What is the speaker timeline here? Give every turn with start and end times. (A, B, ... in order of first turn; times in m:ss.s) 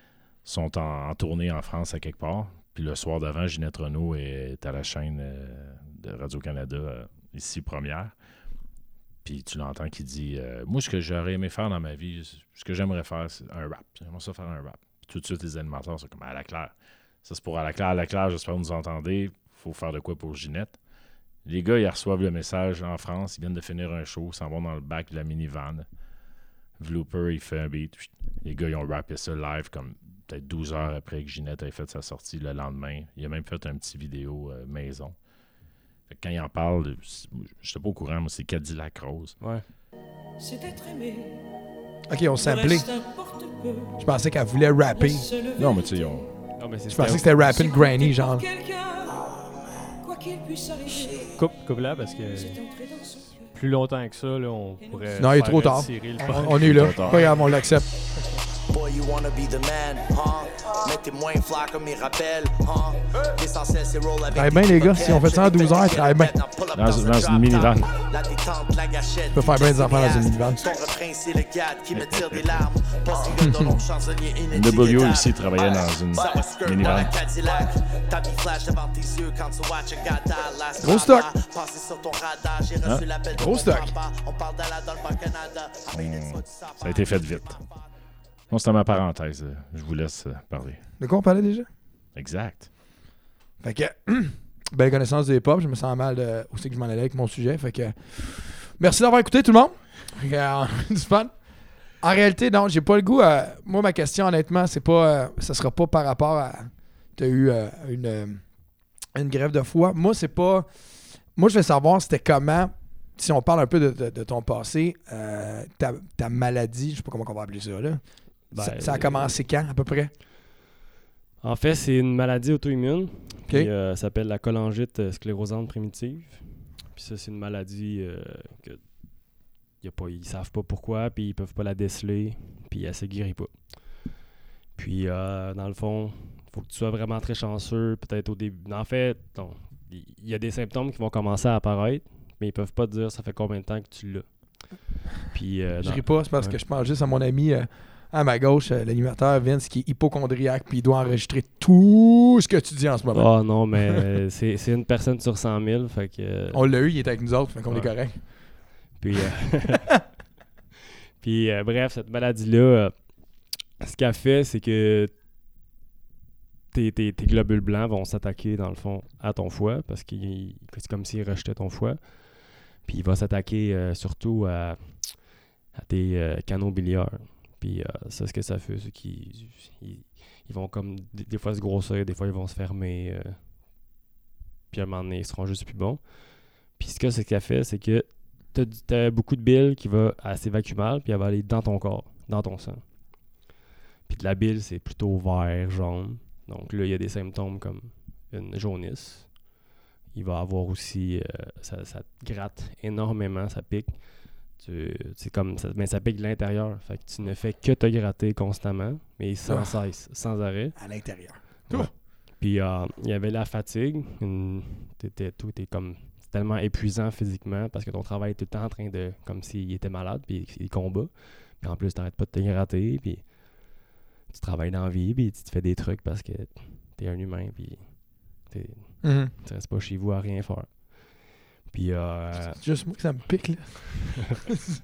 0:00.4-0:08.2 A
0:09.2-0:20.8 A
0:21.4-0:25.9 A
0:26.8-0:35.2 A
0:36.1-0:39.4 A
0:39.4-0:39.6 B
0:42.1-0:43.0 C
0:44.0-0:45.4 C
0:45.5-0:46.4 A
0:46.6-0:47.6 B
0:46.9-0:48.5 C
0:51.3-0:57.1 D
0:55.2-0:58.0 C
0:56.4-0:57.5 A
0:58.7-1:27.9 E
1:04.3-1:06.4 C
1:06.7-1:07.9 A
1:09.3-1:10.7 C
1:11.9-1:12.7 A
1:13.4-1:13.8 C
1:14.5-1:17.1 A
1:20.8-1:21.3 C
1:23.3-1:23.9 C
1:25.9-1:27.6 A
1:28.5-1:30.8 A
1:31.0-1:31.7 C
1:32.2-1:32.7 A
1:33.6-2:00.1 C
1:58.5-1:59.4 B
2:01.4-2:14.1 B
2:14.8-2:26.6 B
2:25.8-2:34.1 C
2:33.1-2:37.0 B
2:36.5-2:38.6 C
2:37.7-2:40.1 B
2:41.2-2:45.1 B
2:46.7-3:03.5 B
3:04.7-3:13.0 B
3:14.1-3:19.5 B
3:20.1-3:52.8 B
3:29.5-3:30.0 C
3:30.8-3:31.9 C
3:49.0-3:49.3 C
3:52.4-3:54.4 C